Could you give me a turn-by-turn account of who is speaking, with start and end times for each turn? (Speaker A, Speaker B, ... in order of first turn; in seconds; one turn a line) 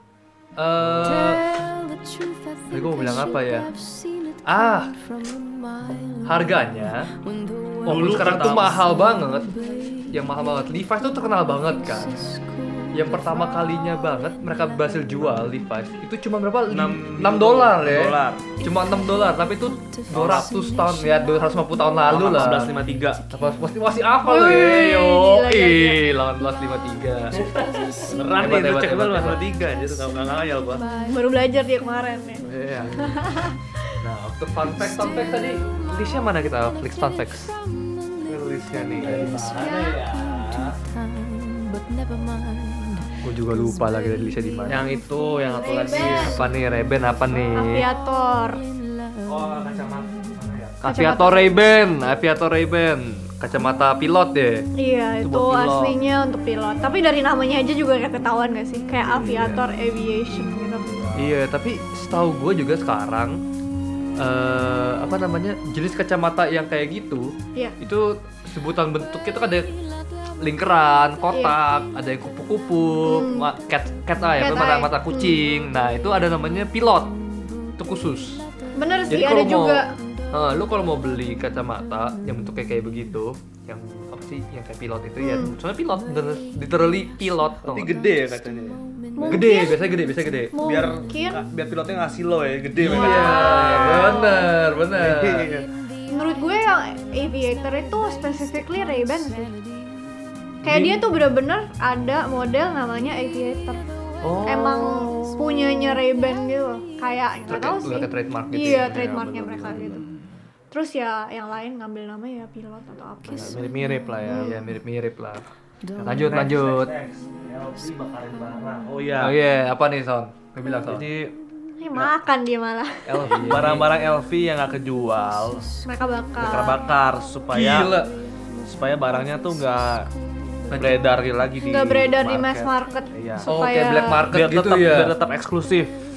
Speaker A: 0.6-1.5
Speaker A: 2.7-3.7
Speaker A: 4.4-4.9
Speaker A: 6.2-7.1
Speaker B: 7.8-8.9
Speaker A: 7.8-9.5
Speaker A: 10.1-12.2
Speaker A: 12.9-29.4
Speaker B: 16.7-18.5
Speaker B: 20.1-20.6
Speaker B: 22.1-23.2
Speaker C: 24.2-26.0
Speaker B: 28.1-30.9
Speaker C: 30.8-32.5
Speaker B: 32.4-33.2
Speaker C: 33.0-33.5
Speaker A: 34.0-37.5
Speaker B: 38.2-40.7
Speaker A: 39.0-39.8
Speaker C: 39.6-39.9
Speaker A: 43.2-44.9
Speaker B: 44.6-46.5
Speaker C: 45.5-46.4
Speaker A: 46.0-47.9
Speaker C: 47.5-48.6
Speaker B: 49.2-50.8
Speaker A: 50.8-54.7
Speaker C: 50.8-51.6
Speaker C: 54.8-61.1
Speaker B: 55.2-56.0
Speaker A: 59.2-59.6
Speaker B: 61.0-61.3
Speaker A: 61.1-63.4
Speaker A: 64.2-69.7
Speaker A: 70.4-77.1
Speaker C: 73.0-73.5
Speaker C: 74.4-75.4
Speaker A: 77.8-78.5
Speaker C: 78.7-79.9
Speaker A: 79.1-88.0
Speaker C: 85.2-85.5
Speaker B: 87.6-88.8
Speaker C: 89.2-89.8
Speaker A: 89.2-90.5
Speaker C: 90.5-91.4
Speaker B: 90.6-94.2
Speaker A: 92.8-95.5
Speaker C: 92.8-94.4
Speaker B: 94.9-95.7
Speaker C: 96.1-99.5
Speaker A: 100.6-101.0
Speaker C: 100.6-103.8
Speaker A: 104.2-105.1
Speaker C: 104.5-110.0
Speaker A: 107.5-109.2
Speaker B: 108.5-110.0
Speaker C: 110.7-113.7
Speaker B: 113.3-114.6
Speaker C: 114.2-114.5
Speaker A: 114.3-115.5
Speaker B: 116.0-119.4
Speaker A: 116.0-116.9
Speaker A: 119.2-121.1
Speaker B: 120.8-121.3
Speaker C: 121.8-123.3
Speaker A: 123.1-123.9
Speaker B: 123.1-125.7
Speaker C: 125.8-126.8
Speaker B: 126.4-128.0
Speaker A: 127.5-128.1
Speaker B: 128.6-130.1
Speaker A: 130.7-131.1
Speaker B: 130.8-133.5
Speaker C: 131.6-134.2
Speaker A: 133.5-135.1
Speaker B: 134.3-135.9